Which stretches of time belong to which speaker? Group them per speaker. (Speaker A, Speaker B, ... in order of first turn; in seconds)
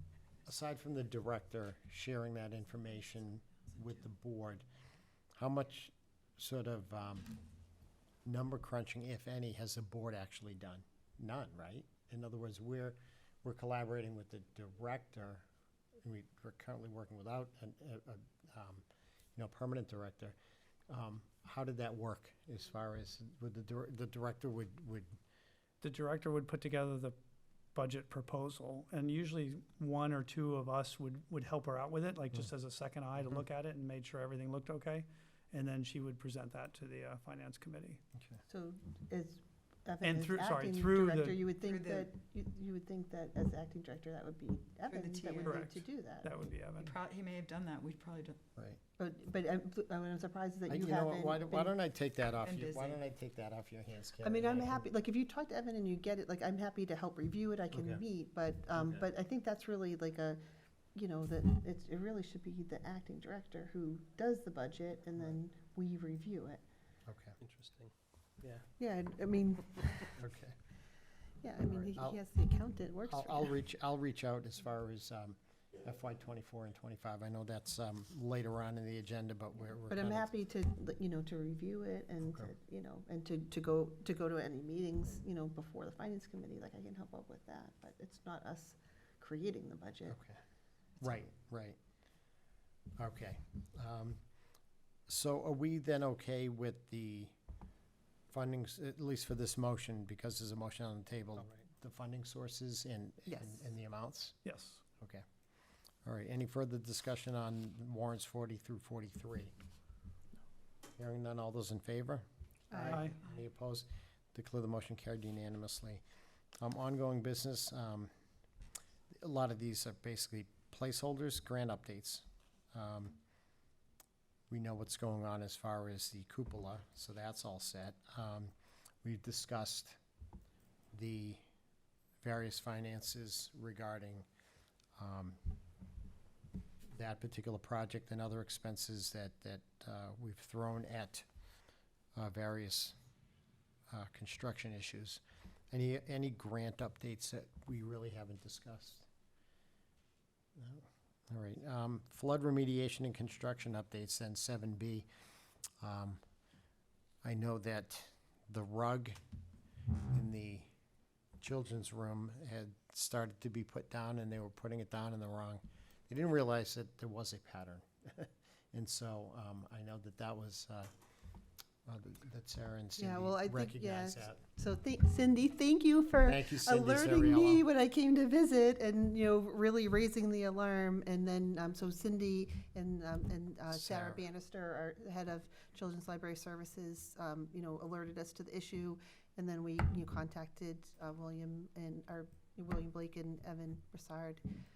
Speaker A: 0.5-4.7, 5.4-7.3, 8.3-15.4, 16.0-20.4, 20.9-25.1, 38.1-38.4, 50.7-54.9, 57.7-58.0, 58.7-59.0, 67.0-67.4, 70.2-70.6, 71.7-72.2, 73.1-80.3, 90.1-90.4, 91.0-91.8, 93.0-94.2, 95.1-97.3, 98.3-104.4, 105.0-105.2, 106.0-109.5, 111.0-116.0, 116.6-118.1, 119.2-123.2, 124.5-128.5, 129.0-130.0, 130.9-131.4, 132.2-134.3, 135.0-135.4, 136.9-141.3, 142.2-142.9, 143.9-149.1, 150.6-155.1, 155.8-156.2, 157.2-159.2, 160.1-160.7, 161.4-170.9, 171.9-174.4, 176.2-177.7, 183.7-184.2
Speaker B: 25.8-27.2, 27.8-38.0, 40.0-41.4, 45.5-47.0, 104.4-104.8, 112.9-113.2
Speaker C: 38.5-46.3, 49.0-51.7, 54.2-60.4, 61.0-66.6, 68.8-70.2, 71.4-73.6, 79.9-90.2, 103.3-103.6, 112.7-113.0, 173.0-194.4
Speaker D: 41.6-42.1, 44.9-45.7, 46.8-48.4, 52.5-52.9